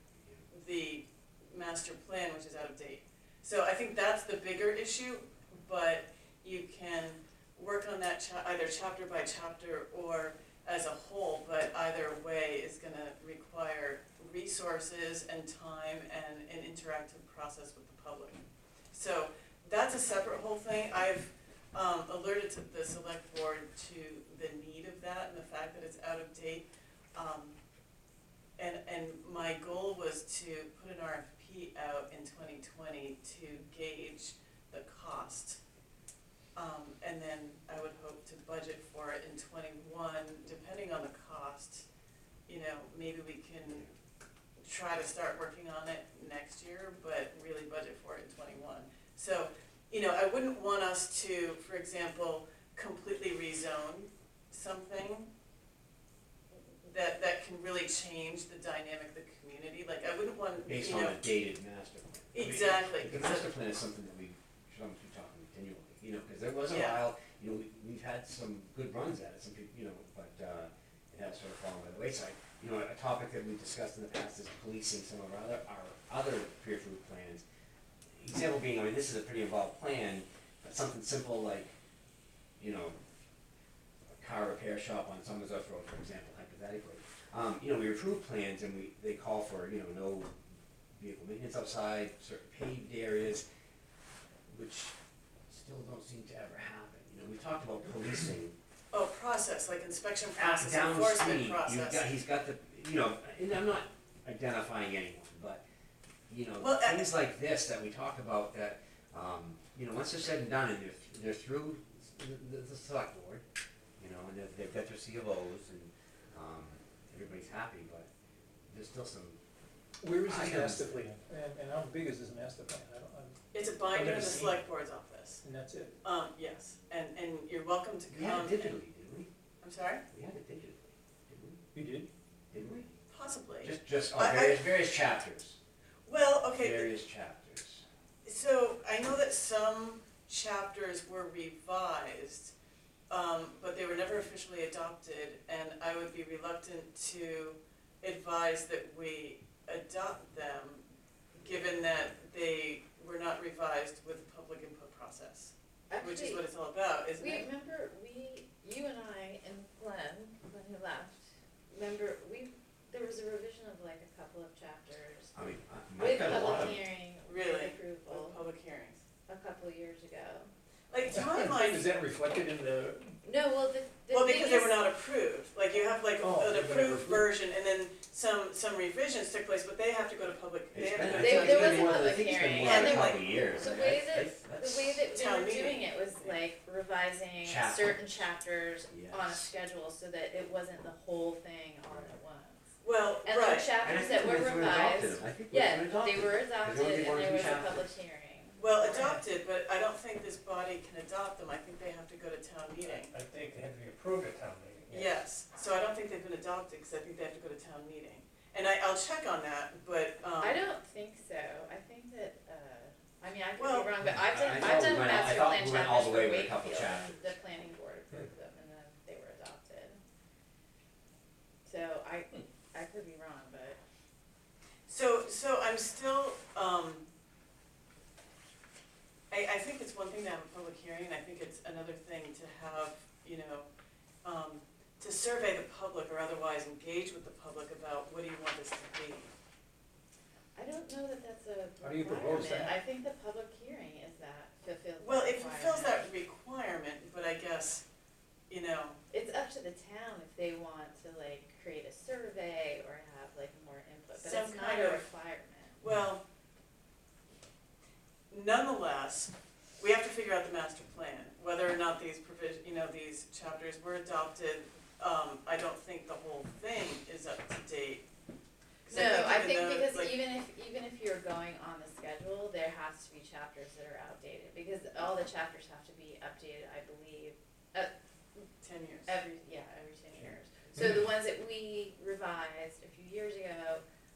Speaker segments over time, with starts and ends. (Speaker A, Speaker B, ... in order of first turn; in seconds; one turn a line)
Speaker A: 0.5-27.6
Speaker A: 28.6-35.6
Speaker A: 36.6-41.9
Speaker A: 42.5-43.9
Speaker A: 44.6-55.3
Speaker A: 56.8-61.3
Speaker B: 60.7-77.4
Speaker A: 62.3-63.5
Speaker A: 66.7-67.0
Speaker B: 78.2-81.7
Speaker B: 82.6-83.0
Speaker B: 84.1-90.3
Speaker B: 91.0-93.5
Speaker B: 94.5-94.9
Speaker B: 95.5-98.5
Speaker A: 98.9-102.1
Speaker B: 100.4-105.6
Speaker B: 106.3-113.4
Speaker A: 106.6-107.1
Speaker B: 114.0-118.1
Speaker B: 118.7-119.4
Speaker C: 120.0-123.4
Speaker B: 120.2-120.9
Speaker A: 123.5-125.4
Speaker C: 123.9-124.6
Speaker C: 125.4-125.9
Speaker A: 126.0-128.8
Speaker B: 128.1-129.3
Speaker A: 129.6-130.0
Speaker B: 130.1-131.6
Speaker C: 131.7-132.1
Speaker B: 132.5-132.9
Speaker A: 133.1-134.7
Speaker B: 133.6-135.6
Speaker A: 136.1-136.9
Speaker B: 136.6-137.8
Speaker A: 138.2-142.5
Speaker A: 143.1-157.5
Speaker D: 155.9-156.4
Speaker D: 157.2-165.3
Speaker B: 165.3-166.8
Speaker D: 166.0-168.4
Speaker A: 166.3-166.7
Speaker A: 167.3-169.0
Speaker D: 169.3-170.5
Speaker A: 170.9-171.9
Speaker C: 171.1-173.2
Speaker D: 173.2-174.8
Speaker A: 174.1-183.3
Speaker C: 176.2-177.3
Speaker B: 180.7-185.1
Speaker D: 181.1-192.7
Speaker A: 185.1-186.4
Speaker B: 187.4-188.0
Speaker B: 188.9-189.4
Speaker B: 191.9-192.1
Speaker A: 192.8-193.8
Speaker D: 193.2-199.2
Speaker B: 193.8-197.9
Speaker A: 198.6-203.1
Speaker E: 202.8-205.2
Speaker A: 204.9-210.6
Speaker D: 210.4-220.0
Speaker A: 213.6-213.9
Speaker B: 214.2-217.2
Speaker D: 221.7-223.8
Speaker A: 224.9-227.1
Speaker A: 229.3-233.7
Speaker A: 234.2-239.3
Speaker D: 240.6-246.1
Speaker C: 241.8-242.8
Speaker A: 245.0-247.8
Speaker A: 248.5-249.0
Speaker D: 249.1-255.8
Speaker A: 254.2-255.1
Speaker A: 255.8-256.2
Speaker A: 258.3-268.1
Speaker A: 268.9-270.1
Speaker D: 268.9-277.9
Speaker A: 278.6-279.2
Speaker D: 279.1-283.8